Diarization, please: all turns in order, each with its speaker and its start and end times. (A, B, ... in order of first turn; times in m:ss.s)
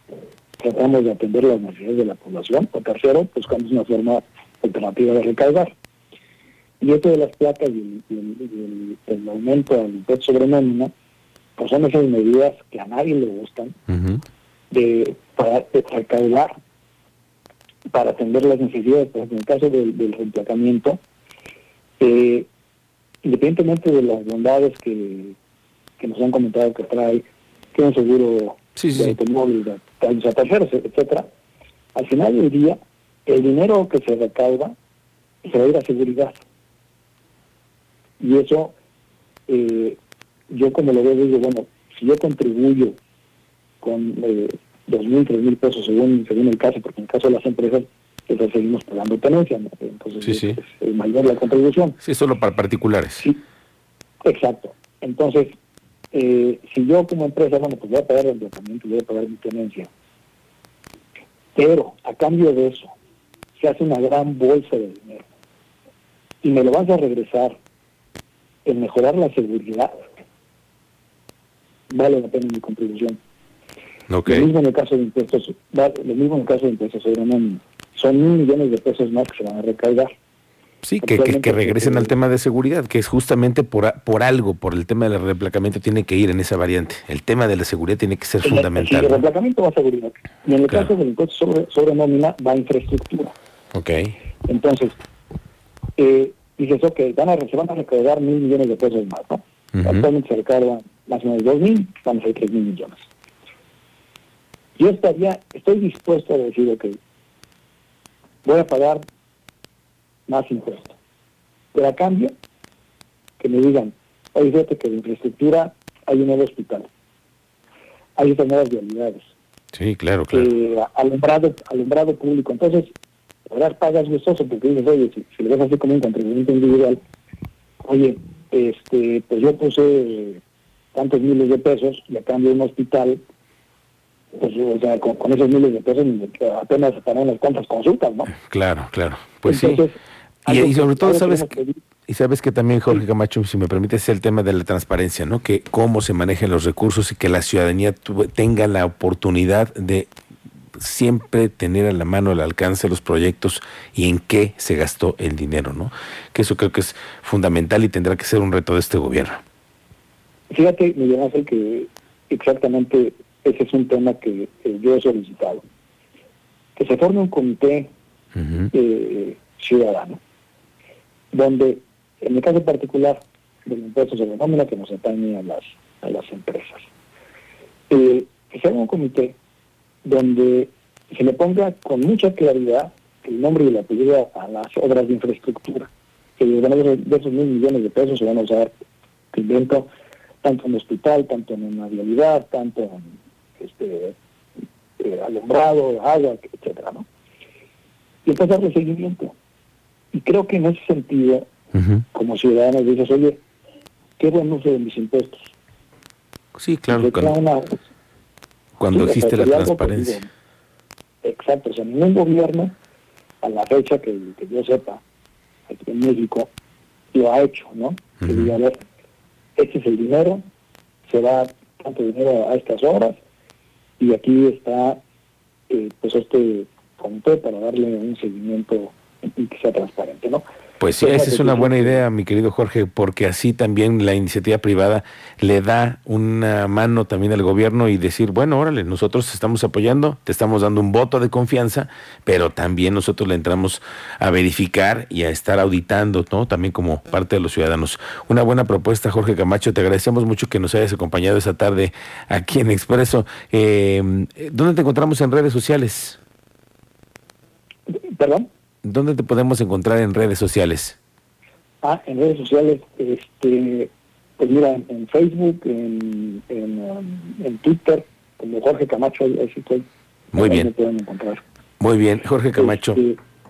0:00.6-0:05.7 A
0:06.8-0:10.9 A
0:11.6-0:13.8 A
0:13.9-0:14.2 B
0:14.7-0:16.5 A
0:17.9-0:21.0 A
0:22.0-0:22.5 A
0:23.2-0:25.4 A
0:26.0-0:31.3 A
0:28.8-0:29.2 B
0:31.9-0:34.7 A
0:35.4-0:36.4 A
0:38.2-0:38.7 A
0:39.5-0:40.0 A
0:40.5-0:43.0 A
0:43.8-0:52.0 A
0:50.2-0:50.6 B
0:52.0-0:53.3 B
0:54.2-0:55.5 A
0:56.1-0:59.9 A
1:01.6-1:02.9 A
1:03.6-1:05.2 A
1:06.4-1:07.6 A
1:08.6-1:09.9 A
1:11.9-1:13.2 A
1:14.1-1:14.5 B
1:14.2-1:20.1 A
1:20.8-1:29.2 B
1:21.0-1:22.1 A
1:28.4-1:33.4 A
1:33.7-1:34.1 B
1:34.5-1:35.0 A
1:36.0-1:43.0 A
1:39.7-1:40.1 B
1:44.8-1:47.0 A
1:48.4-1:49.0 A
1:50.3-1:51.0 A
1:51.7-1:52.3 A
1:53.4-1:56.9 A
1:58.2-1:59.3 A
1:59.7-2:00.5 B
2:00.3-2:02.9 A
2:03.5-2:07.0 A
2:07.8-2:10.4 A
2:10.9-2:13.2 A
2:14.3-2:18.3 A
2:18.4-2:19.8 B
2:19.4-2:21.8 A
2:20.5-2:21.5 B
2:22.1-2:30.1 B
2:30.8-2:39.4 B
2:40.5-2:45.6 A
2:46.8-2:47.9 A
2:48.7-2:50.2 A
2:51.3-2:56.8 A
2:57.9-2:59.4 A
3:00.0-3:08.7 A
3:09.3-3:09.9 A
3:10.4-3:14.2 A
3:15.0-3:17.1 A
3:18.2-3:19.3 A
3:20.1-3:21.5 A
3:21.8-3:22.0 B
3:22.1-3:23.4 A
3:24.2-3:25.5 A
3:26.6-3:27.3 B
3:26.9-3:27.8 A
3:28.8-3:30.2 B
3:28.9-3:30.3 A
3:31.2-3:32.7 A
3:33.4-3:35.0 A
3:35.7-3:36.5 A
3:37.1-3:38.7 A
3:38.2-3:38.5 B
3:39.6-3:40.4 A
3:41.1-3:43.2 A
3:44.0-3:45.0 A
3:45.7-3:50.4 A
3:50.8-4:16.2 B
3:51.0-3:52.0 A
4:17.9-4:18.5 A
4:18.8-4:21.0 B
4:21.8-4:29.8 A
4:30.3-4:30.7 B
4:30.4-4:31.4 A
4:31.8-4:33.0 B
4:32.6-4:33.2 A